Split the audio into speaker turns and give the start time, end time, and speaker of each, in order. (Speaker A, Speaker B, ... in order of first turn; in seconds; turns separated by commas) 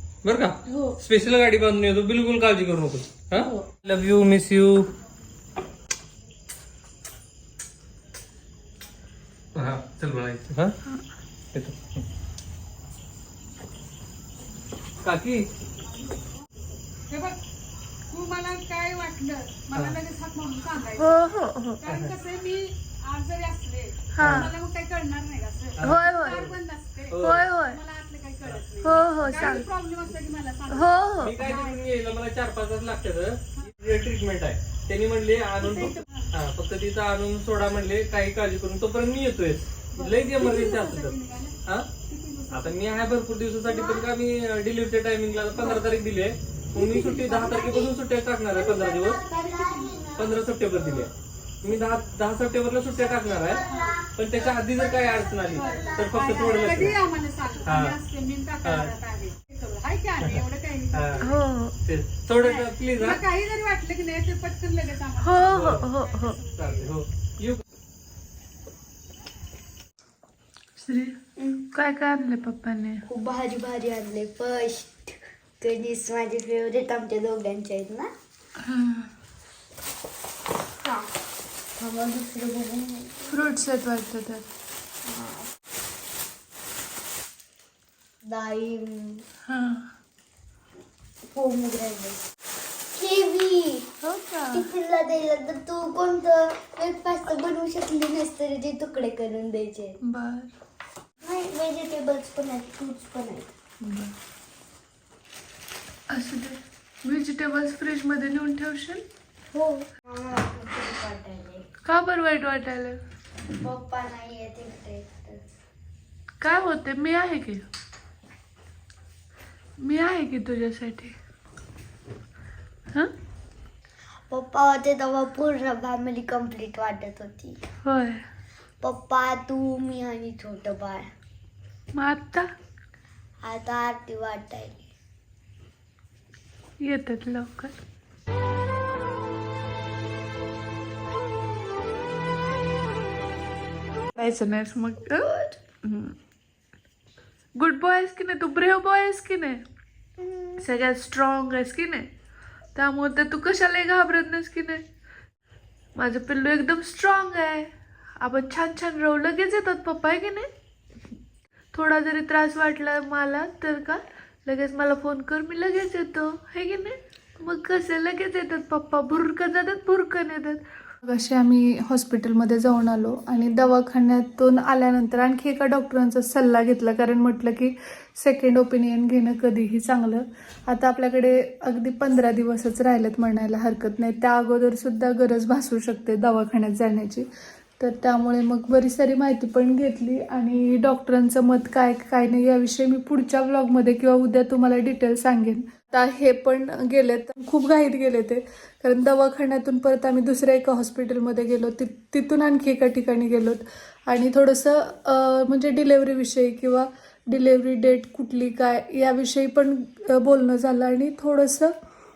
Speaker A: 0.2-4.9, Speaker B: 0.7-1.0, Speaker B: 3.3-3.6, Speaker A: 9.6-10.7, Speaker A: 11.5-12.0, Speaker A: 15.0-15.4, Speaker C: 16.0-17.4, Speaker C: 18.1-21.3, Speaker B: 21.0-21.8, Speaker C: 21.8-31.8, Speaker A: 21.9-22.1, Speaker B: 24.1-24.5, Speaker A: 24.2-24.6, Speaker A: 25.8-26.6, Speaker B: 25.8-26.4, Speaker A: 27.1-27.4, Speaker B: 27.2-27.8, Speaker B: 28.8-29.7, Speaker B: 30.7-31.4, Speaker A: 31.2-41.9, Speaker C: 35.6-36.2, Speaker C: 39.9-42.8, Speaker A: 42.5-49.2, Speaker D: 43.7-44.1, Speaker C: 45.6-45.8, Speaker C: 46.8-47.6, Speaker D: 47.3-47.9, Speaker D: 48.5-50.4, Speaker A: 50.1-51.1, Speaker A: 51.6-53.6, Speaker D: 53.2-57.1, Speaker A: 54.1-57.0, Speaker C: 55.6-61.3, Speaker A: 57.6-58.0, Speaker A: 58.6-58.9, Speaker A: 60.2-61.3, Speaker B: 61.2-61.8, Speaker A: 61.8-63.2, Speaker C: 62.4-66.9, Speaker B: 65.2-66.4, Speaker A: 65.5-65.9, Speaker A: 66.5-67.6, Speaker B: 70.8-71.2, Speaker D: 71.4-71.6, Speaker B: 71.7-73.0, Speaker D: 73.1-78.1, Speaker B: 78.6-79.1, Speaker D: 80.8-81.1, Speaker D: 81.8-83.3, Speaker B: 83.3-84.5, Speaker D: 85.0-85.5, Speaker D: 88.2-89.2, Speaker B: 89.5-89.9, Speaker D: 91.3-92.2, Speaker D: 92.9-93.9, Speaker B: 94.0-94.7, Speaker D: 94.5-100.0, Speaker B: 100.0-100.5, Speaker D: 101.2-103.5, Speaker B: 103.8-104.1, Speaker B: 106.1-109.0, Speaker D: 109.5-111.6, Speaker B: 111.9-113.0, Speaker D: 113.5-115.4, Speaker B: 116.4-117.6, Speaker B: 119.8-121.1, Speaker D: 124.3-127.6, Speaker B: 127.8-128.2, Speaker D: 128.8-131.1, Speaker B: 131.9-132.5, Speaker D: 133.4-134.9, Speaker B: 136.8-137.8, Speaker B: 144.1-146.2, Speaker B: 147.6-149.6, Speaker B: 150.6-152.1, Speaker B: 152.8-154.8, Speaker B: 155.9-160.5, Speaker B: 161.7-187.3, Speaker B: 187.8-211.7